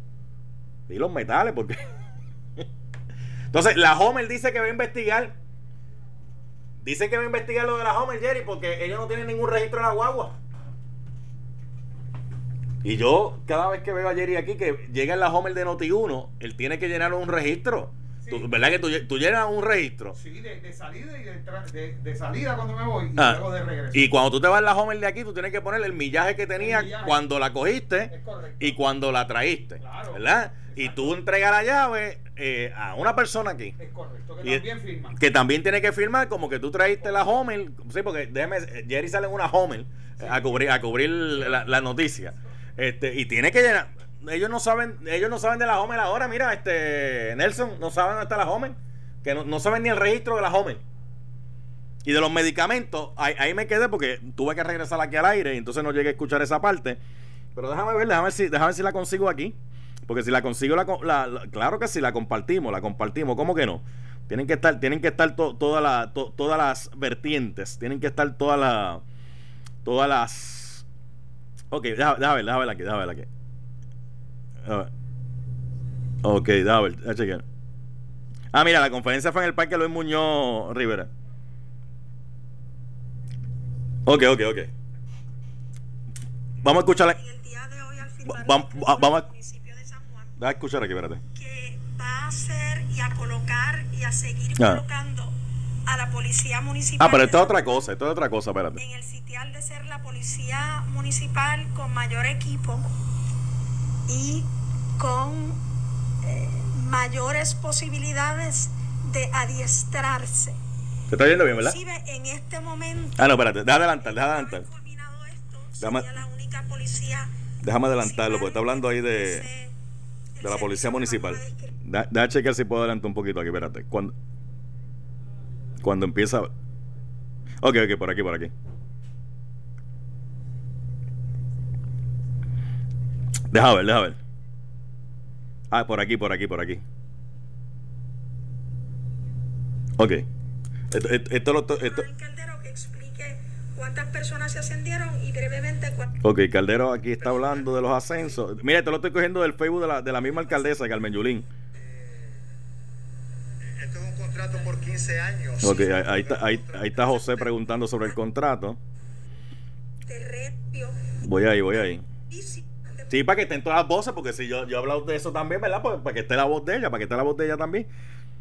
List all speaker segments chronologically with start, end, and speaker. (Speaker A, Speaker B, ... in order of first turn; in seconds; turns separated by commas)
Speaker A: 0.9-1.8, Speaker A: 3.5-5.3, Speaker A: 6.8-10.3, Speaker A: 12.8-20.1, Speaker B: 20.1-24.1, Speaker A: 23.1-33.8, Speaker B: 26.6-27.2, Speaker B: 28.1-28.8, Speaker B: 29.8-31.1, Speaker B: 33.8-35.2, Speaker A: 34.4-50.8, Speaker A: 52.0-57.0, Speaker A: 57.5-59.5, Speaker A: 60.1-69.0, Speaker A: 69.8-70.8, Speaker A: 71.7-73.3, Speaker A: 74.6-74.9, Speaker A: 76.2-77.4, Speaker A: 78.5-81.1, Speaker A: 84.0-84.7, Speaker A: 86.6-87.2, Speaker C: 87.1-90.3, Speaker A: 88.2-89.2, Speaker A: 90.4-91.2, Speaker C: 91.3-95.3, Speaker C: 95.9-97.9, Speaker A: 97.0-98.8, Speaker C: 98.8-102.9, Speaker C: 104.1-104.5, Speaker C: 105.0-105.6, Speaker C: 106.2-110.6, Speaker A: 111.1-111.8, Speaker C: 111.6-117.3, Speaker A: 113.2-114.7, Speaker A: 115.8-116.1, Speaker A: 117.6-119.5, Speaker C: 118.0-119.7, Speaker C: 120.4-121.7, Speaker A: 120.4-124.1, Speaker A: 125.8-126.5, Speaker A: 127.6-128.5, Speaker A: 133.5-134.2, Speaker A: 135.7-136.8, Speaker A: 140.0-140.2, Speaker A: 140.9-142.1, Speaker C: 141.8-146.2, Speaker A: 146.2-151.5, Speaker B: 153.8-155.6, Speaker A: 155.6-158.8, Speaker C: 160.1-161.0, Speaker A: 161.2-162.0, Speaker C: 162.3-163.1, Speaker A: 163.1-167.9